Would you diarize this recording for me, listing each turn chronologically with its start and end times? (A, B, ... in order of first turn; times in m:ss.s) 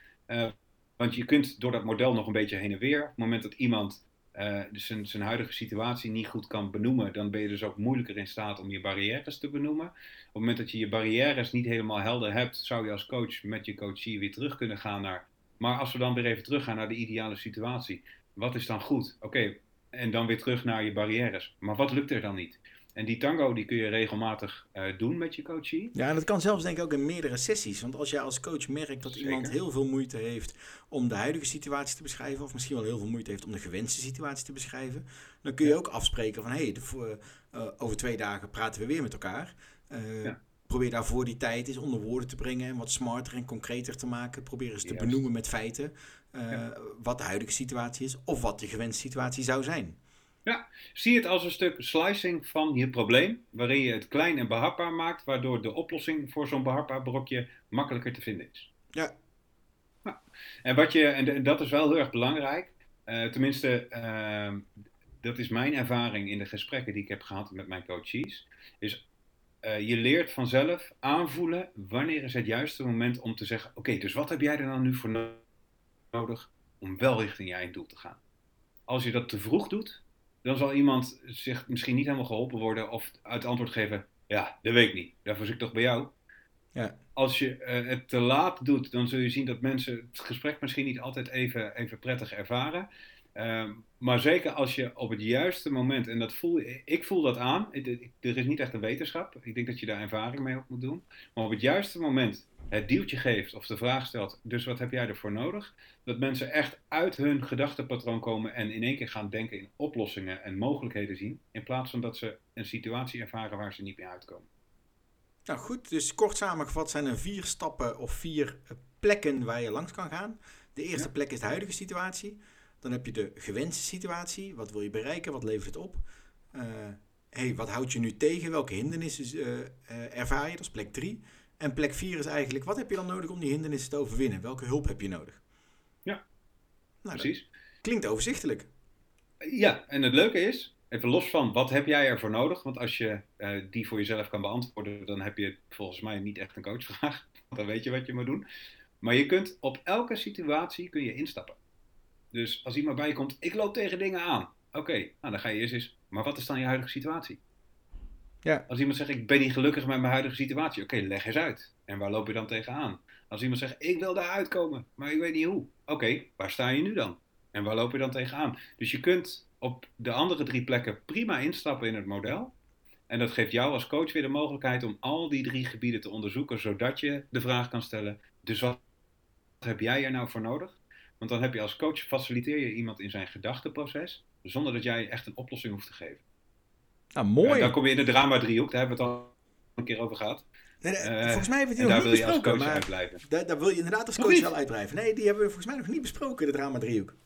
0:00.3-0:25.9 A
0:26.0-0:50.0 B
0:29.1-0:29.6 A
0:44.8-0:45.2 A
0:50.4-0:58.7 A
1:00.0-1:04.7 A
1:05.2-1:09.1 A
1:09.6-1:15.4 A
1:16.1-1:18.2 A
1:18.9-1:26.1 A
1:27.2-1:54.5 A
1:55.5-2:15.4 B
2:17.0-2:17.3 B
2:17.1-2:17.5 A
2:17.8-2:18.7 B
2:19.5-2:28.4 A
2:29.0-2:31.6 A
2:32.3-2:37.4 A
2:38.7-2:52.5 A
2:53.1-2:58.8 A
2:59.6-3:06.2 A
3:07.1-3:07.8 B
3:07.4-3:10.5 A
3:10.8-3:17.1 B
3:11.0-3:13.2 A
3:14.2-3:14.5 A